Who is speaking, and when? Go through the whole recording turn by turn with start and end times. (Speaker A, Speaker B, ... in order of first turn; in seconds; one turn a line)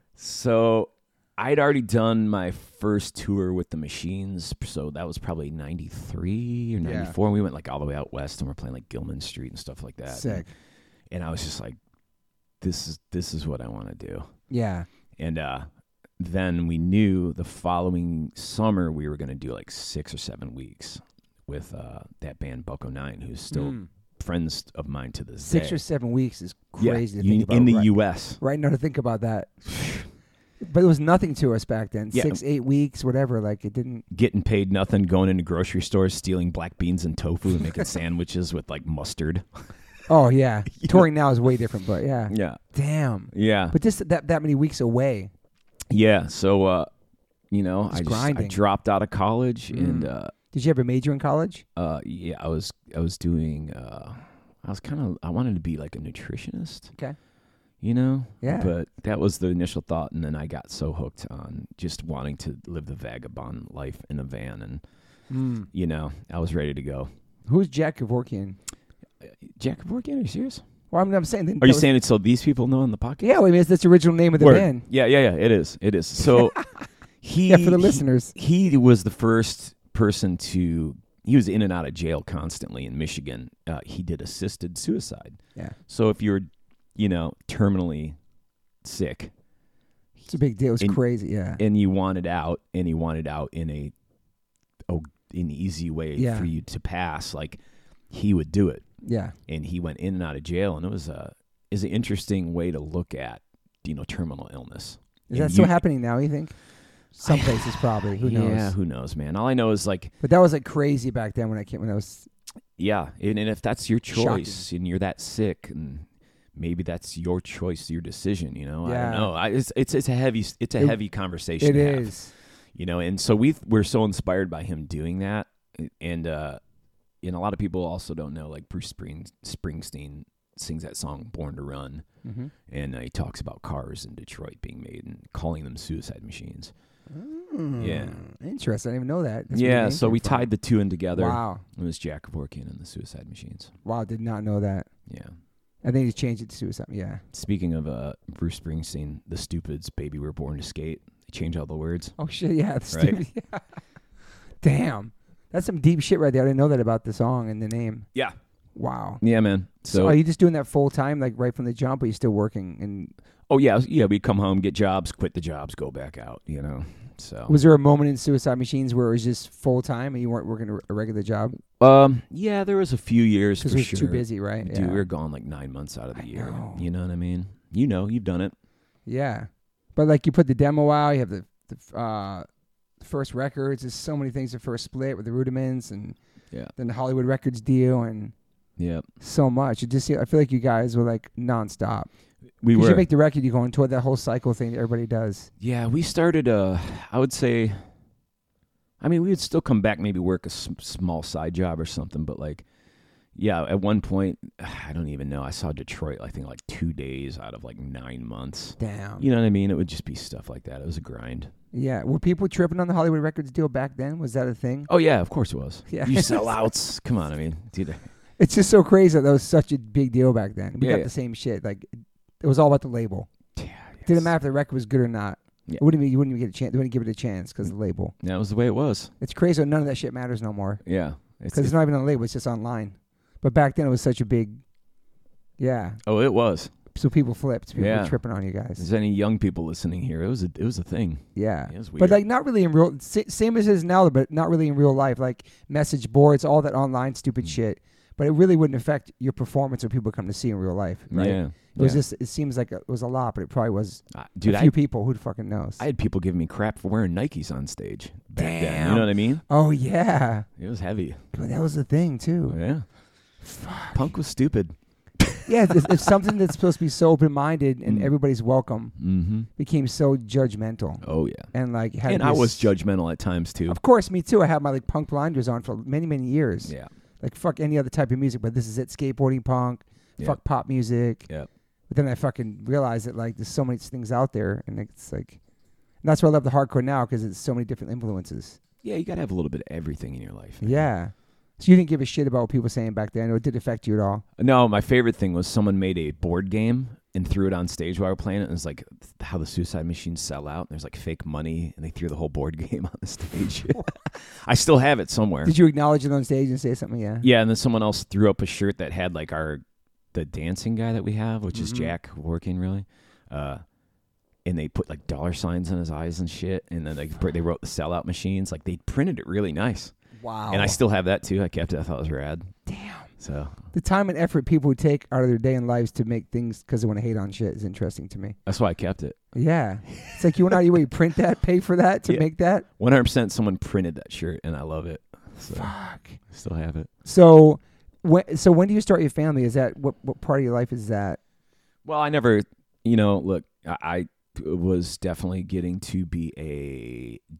Speaker A: 0.1-10.4
Speaker B: 6.8-7.1
Speaker B: 10.1-10.5
Speaker A: 11.1-11.8
Speaker A: 12.6-14.3
Speaker B: 14.5-14.9
Speaker A: 15.2-15.7
Speaker A: 16.2-25.8
Speaker B: 23.5-23.9
Speaker B: 25.4-29.6
Speaker A: 26.8-28.4
Speaker B: 30.6-34.0
Speaker A: 32.1-32.4
Speaker A: 34.1-39.7
Speaker B: 40.1-45.3
Speaker A: 40.8-41.1
Speaker A: 42.3-42.6
Speaker A: 43.3-43.8
Speaker A: 45.9-46.9
Speaker A: 47.5-50.3
Speaker B: 47.9-48.6
Speaker B: 49.7-51.6
Speaker A: 51.8-56.9
Speaker A: 57.8-64.8
Speaker B: 58.4-58.7
Speaker B: 65.3-65.7
Speaker A: 65.7-67.1
Speaker B: 67.5-68.6
Speaker A: 69.2-70.6
Speaker B: 70.9-71.9
Speaker A: 71.6-73.3
Speaker B: 73.2-74.8
Speaker A: 74.4-76.6
Speaker B: 76.2-76.7
Speaker A: 77.2-88.2
Speaker B: 77.5-78.3
Speaker A: 88.8-89.3
Speaker B: 90.3-91.6
Speaker A: 91.6-93.9
Speaker A: 94.9-97.6
Speaker B: 96.2-96.5
Speaker A: 98.1-98.8
Speaker B: 99.0-99.3
Speaker A: 99.5-105.8
Speaker B: 105.3-106.5
Speaker B: 107.1-108.7
Speaker A: 107.2-107.6
Speaker A: 108.2-110.1
Speaker B: 110.2-112.3
Speaker A: 112.8-122.1
Speaker B: 114.1-114.7
Speaker B: 118.8-119.3
Speaker B: 121.6-122.3
Speaker A: 122.7-126.6
Speaker A: 127.2-132.0
Speaker B: 132.2-132.5
Speaker A: 132.7-136.7
Speaker B: 137.1-140.5
Speaker A: 137.8-138.2
Speaker A: 139.5-143.7
Speaker B: 141.1-141.6
Speaker B: 143.8-144.9
Speaker A: 145.1-145.3
Speaker B: 145.8-147.2
Speaker A: 147.3-152.1
Speaker B: 152.2-153.7
Speaker A: 152.9-153.2
Speaker B: 154.6-158.1
Speaker B: 158.7-159.2
Speaker A: 159.2-160.2
Speaker B: 159.9-163.1
Speaker A: 163.5-167.6
Speaker B: 167.5-171.6
Speaker A: 171.8-178.5
Speaker B: 173.6-175.1
Speaker B: 176.2-176.8
Speaker B: 179.1-182.5
Speaker B: 183.0-186.2
Speaker B: 186.8-188.3
Speaker A: 188.8-189.1
Speaker B: 189.2-192.1
Speaker A: 192.6-193.1
Speaker B: 192.7-195.5
Speaker A: 195.6-197.8
Speaker A: 199.0-202.6
Speaker A: 203.3-211.5
Speaker B: 208.8-209.2
Speaker B: 211.7-214.9
Speaker A: 214.9-218.1
Speaker B: 215.9-216.6
Speaker B: 218.4-221.9
Speaker A: 220.8-221.1
Speaker B: 222.4-223.3
Speaker A: 223.5-224.3
Speaker B: 224.1-228.1
Speaker A: 228.2-229.1
Speaker B: 229.2-230.8
Speaker A: 230.8-231.7
Speaker B: 231.5-234.6
Speaker B: 235.6-236.0
Speaker A: 236.0-236.7
Speaker B: 236.9-238.8
Speaker A: 237.7-238.2
Speaker A: 238.8-242.2
Speaker B: 241.3-255.8
Speaker A: 251.1-252.0
Speaker A: 254.1-254.7
Speaker A: 255.8-259.4
Speaker B: 258.4-260.5
Speaker A: 260.6-261.2
Speaker B: 261.3-262.6
Speaker A: 262.5-262.8
Speaker B: 263.4-264.1
Speaker A: 263.9-266.5
Speaker B: 265.5-268.9
Speaker A: 267.8-268.1
Speaker A: 269.0-269.5
Speaker B: 269.6-271.0
Speaker A: 271.0-271.5
Speaker B: 271.5-272.7
Speaker A: 272.1-273.8
Speaker B: 273.7-281.3
Speaker B: 281.9-285.4
Speaker B: 286.0-288.6
Speaker A: 288.8-290.9
Speaker B: 290.6-294.2
Speaker A: 294.4-305.5
Speaker B: 305.4-307.2
Speaker A: 307.2-309.6
Speaker A: 310.1-313.6
Speaker B: 311.5-311.9
Speaker A: 314.4-319.9
Speaker B: 320.2-320.8
Speaker A: 320.5-322.5
Speaker B: 322.7-323.1
Speaker A: 323.2-323.6
Speaker B: 323.7-328.4
Speaker A: 328.4-329.2
Speaker B: 329.3-332.6
Speaker A: 329.9-330.6
Speaker A: 332.1-335.7
Speaker B: 335.5-336.2
Speaker A: 336.3-336.9
Speaker B: 337.0-341.2
Speaker A: 341.8-347.2